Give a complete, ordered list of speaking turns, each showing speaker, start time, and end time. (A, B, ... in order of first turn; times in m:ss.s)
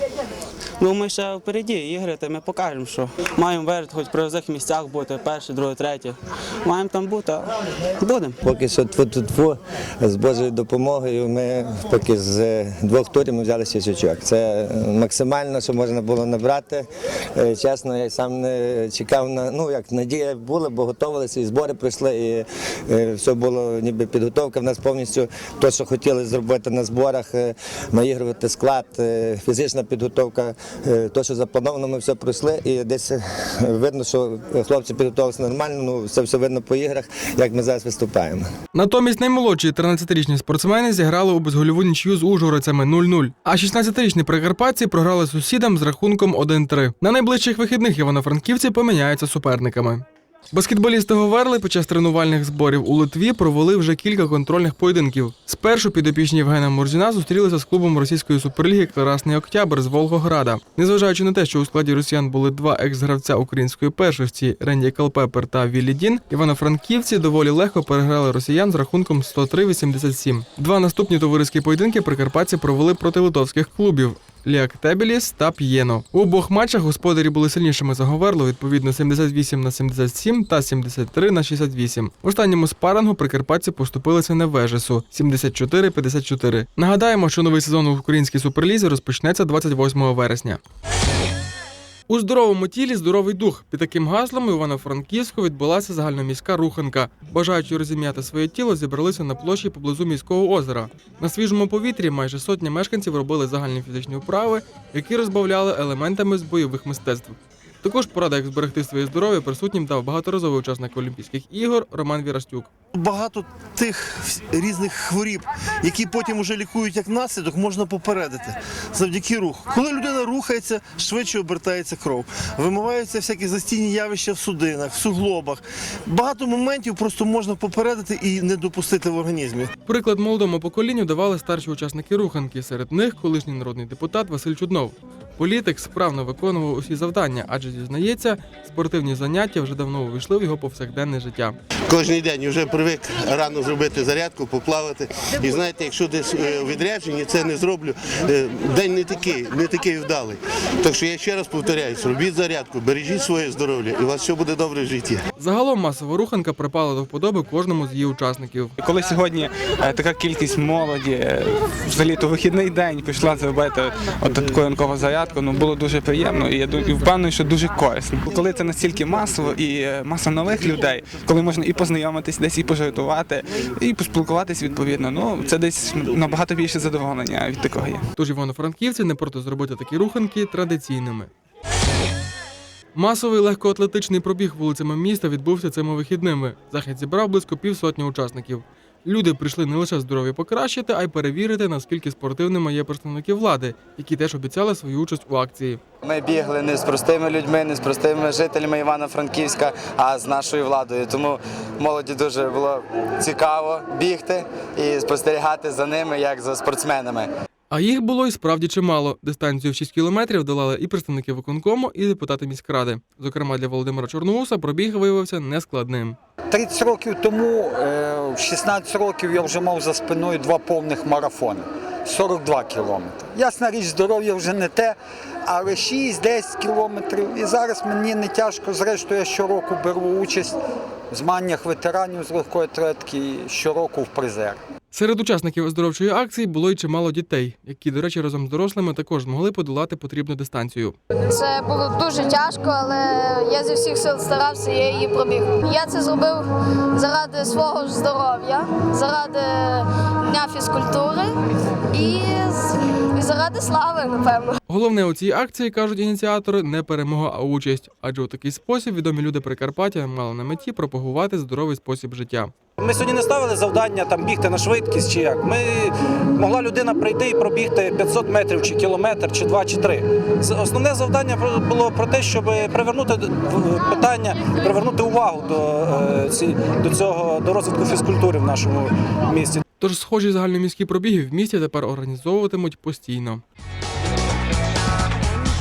0:00.8-0:08.4 A
0:08.4-0:38.5 B
0:38.7-1:30.6 C
1:32.1-1:52.7 C
1:52.9-2:09.7 D
2:09.8-2:21.6 C
2:21.9-2:35.2 E
2:35.4-2:38.7 C
2:38.8-2:58.0 F
2:58.1-3:01.3 C
3:02.9-3:15.8 C
3:16.0-3:27.3 G
3:27.7-3:36.2 C
3:36.5-3:45.0 H
3:45.5-3:50.6 H
3:51.1-3:54.6 H
3:54.9-4:01.0 C
4:01.3-4:06.4 I
4:07.0-4:09.8 I
4:10.3-4:11.2 I
4:12.0-4:12.5 I
4:13.2-4:14.5 I
4:14.7-4:22.5 C
4:22.8-4:39.6 H
4:39.8-4:43.4 C